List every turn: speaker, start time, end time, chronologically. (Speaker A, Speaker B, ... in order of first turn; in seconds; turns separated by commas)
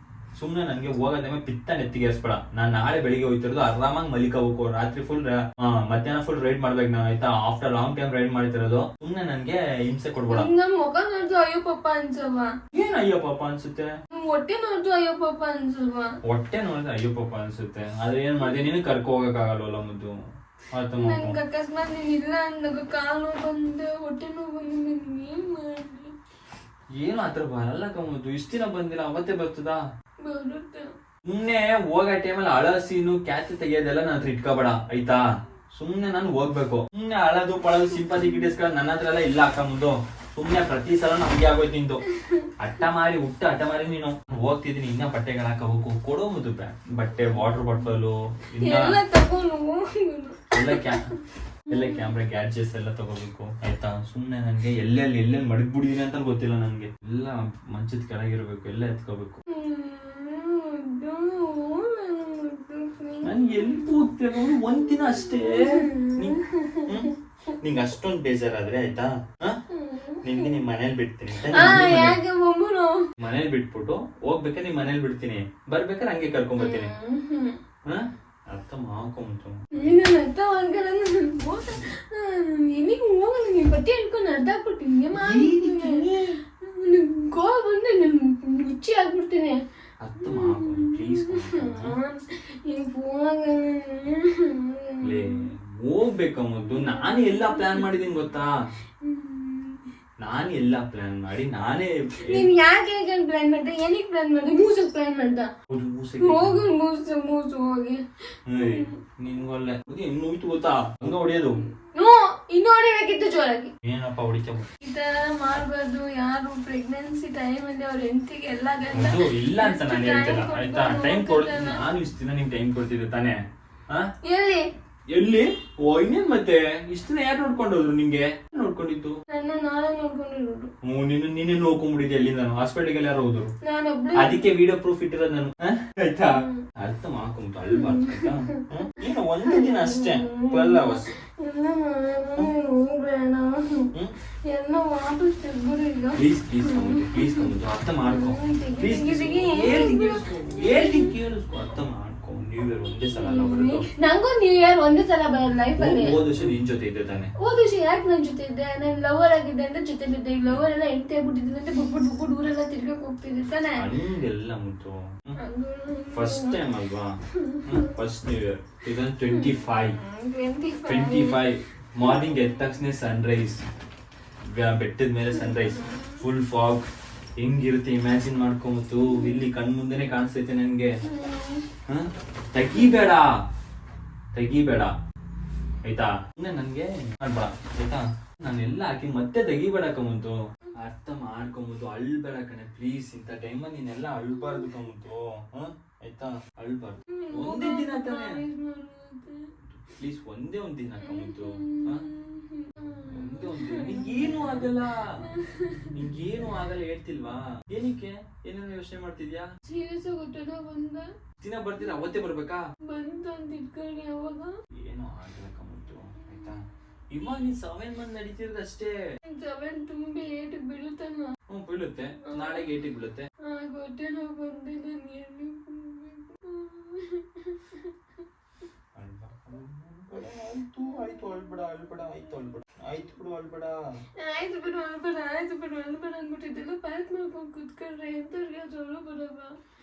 Speaker A: 0.3-10.5, Speaker B: 10.3-12.6, Speaker A: 12.7-14.0, Speaker B: 14.1-16.2, Speaker A: 16.2-20.2, Speaker A: 20.7-21.4, Speaker B: 20.9-26.1, Speaker A: 27.0-29.8, Speaker B: 30.2-30.9, Speaker A: 31.2-42.0, Speaker B: 38.0-38.5, Speaker B: 42.1-42.5, Speaker A: 42.6-49.0, Speaker B: 48.5-52.1, Speaker A: 50.5-51.2, Speaker A: 51.7-59.4, Speaker B: 59.5-67.5, Speaker A: 63.2-69.6, Speaker B: 69.7-70.6, Speaker A: 70.2-72.2, Speaker B: 71.4-73.1, Speaker A: 73.2-76.9, Speaker B: 76.6-77.6, Speaker A: 77.8-79.7, Speaker B: 79.7-89.6, Speaker A: 85.1-86.4, Speaker A: 90.0-92.0, Speaker B: 90.2-95.5, Speaker A: 95.0-98.5, Speaker B: 96.7-98.0, Speaker B: 99.0-99.9, Speaker A: 100.2-102.5, Speaker B: 102.2-105.5, Speaker A: 105.7-106.7, Speaker B: 106.2-108.9, Speaker A: 108.5-111.6, Speaker B: 111.8-113.7, Speaker A: 113.8-114.7, Speaker B: 114.8-121.8, Speaker A: 118.9-124.1, Speaker B: 124.2-124.7, Speaker A: 125.1-129.2, Speaker B: 129.3-130.7, Speaker A: 130.8-133.5, Speaker B: 133.6-134.5, Speaker A: 134.1-141.1, Speaker B: 136.2-136.6, Speaker B: 137.7-143.9, Speaker B: 144.4-147.5, Speaker A: 146.1-153.9, Speaker B: 148.0-151.2, Speaker B: 153.0-156.5, Speaker A: 155.8-157.3, Speaker B: 157.4-163.9, Speaker A: 163.7-165.4, Speaker B: 165.4-166.7, Speaker A: 166.1-170.0, Speaker B: 167.3-168.0, Speaker B: 169.2-172.4, Speaker A: 170.8-173.6, Speaker A: 174.5-176.8, Speaker B: 175.3-176.2, Speaker A: 177.4-181.0, Speaker B: 179.0-179.5, Speaker B: 181.0-181.7, Speaker A: 181.9-183.4, Speaker B: 182.7-183.0, Speaker A: 184.3-184.9, Speaker A: 185.8-198.4, Speaker B: 194.4-194.7, Speaker B: 197.1-199.5, Speaker A: 199.7-202.1, Speaker B: 201.0-206.1, Speaker A: 203.1-205.3, Speaker A: 205.9-209.5, Speaker B: 209.6-211.1, Speaker A: 211.4-212.7, Speaker B: 212.8-214.5, Speaker A: 214.8-218.9, Speaker B: 219.3-221.3, Speaker A: 221.5-223.3, Speaker B: 222.2-222.7, Speaker B: 223.4-228.2, Speaker A: 228.9-234.0, Speaker B: 230.8-231.6, Speaker B: 234.2-239.6